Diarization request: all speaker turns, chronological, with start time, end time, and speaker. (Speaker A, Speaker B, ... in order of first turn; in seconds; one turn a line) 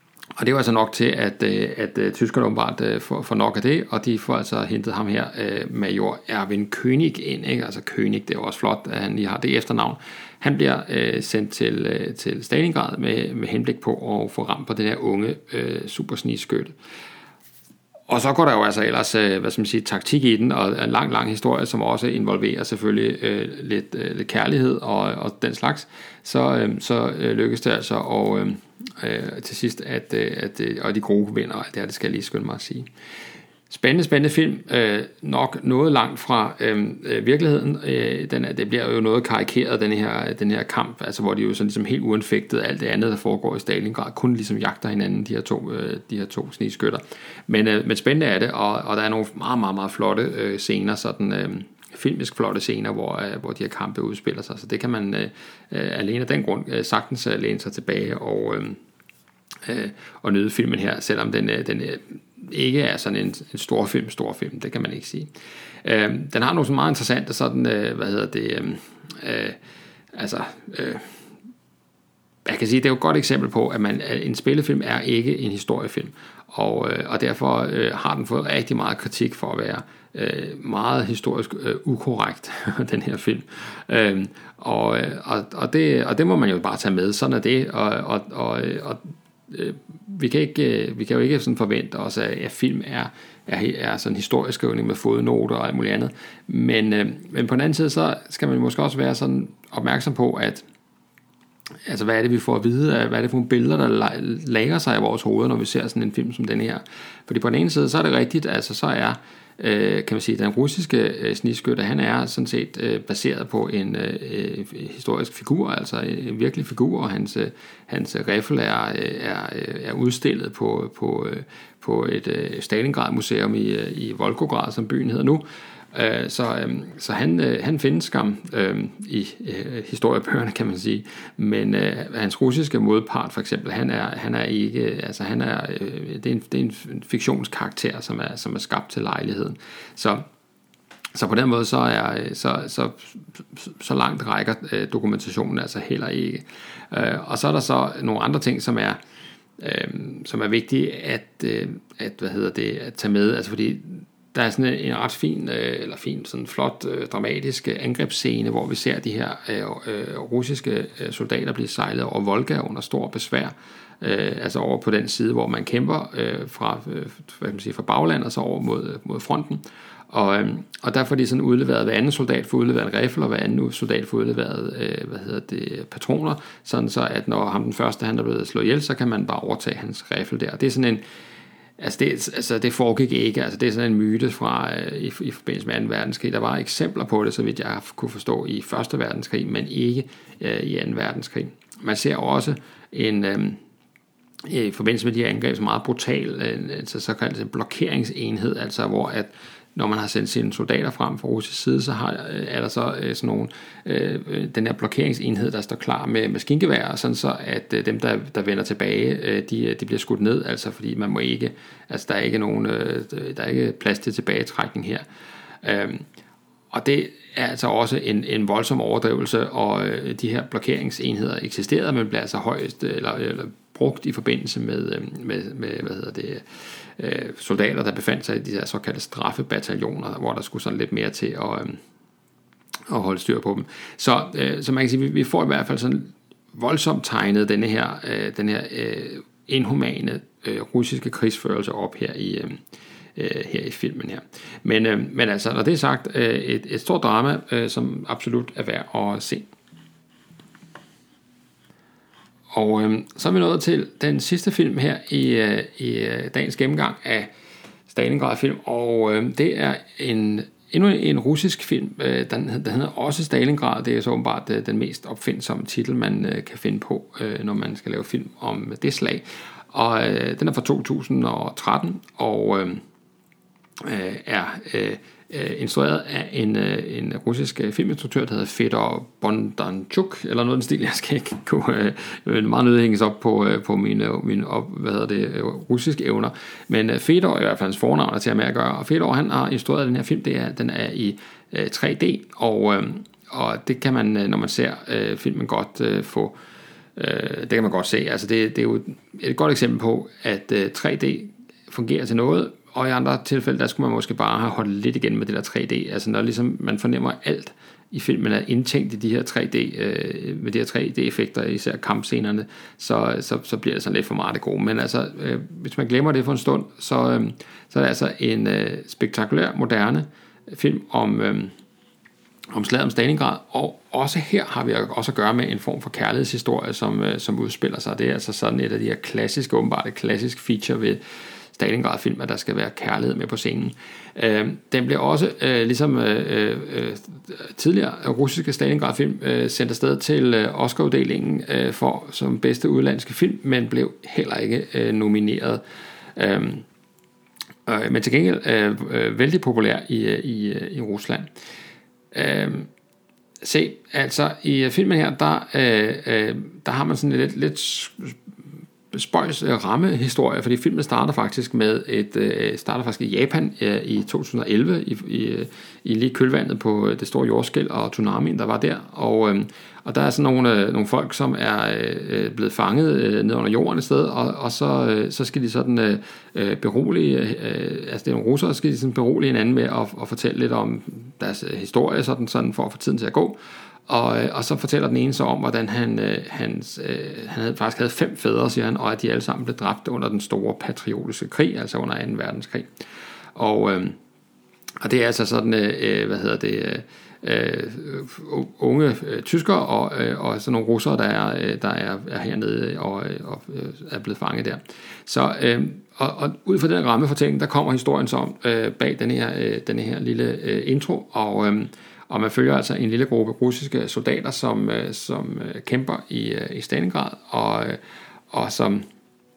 Speaker A: 0.4-16.8
Speaker A: 18.1-32.9
Speaker A: 33.7-58.8
Speaker A: 59.6-65.3
Speaker A: 65.8-69.6
Speaker A: 70.1-71.2
Speaker A: 72.5-100.7
Speaker A: 101.9-140.3
Speaker A: 141.1-149.0
Speaker A: 149.6-181.0
Speaker A: 181.8-193.6
Speaker A: 194.5-215.1
Speaker A: 215.6-216.1
Speaker A: 216.7-231.8
Speaker A: 232.9-242.6
Speaker A: 243.2-249.5
Speaker A: 252.5-257.3
Speaker A: 257.9-272.8
Speaker A: 273.8-296.4
Speaker A: 297.0-321.5
Speaker A: 322.5-331.0
Speaker A: 331.5-345.6
Speaker A: 346.1-346.7
Speaker A: 347.7-351.3
Speaker A: 352.1-352.7
Speaker A: 353.4-358.2
Speaker A: 358.9-392.8
Speaker A: 393.4-394.0
Speaker A: 394.8-417.8
Speaker A: 418.3-418.9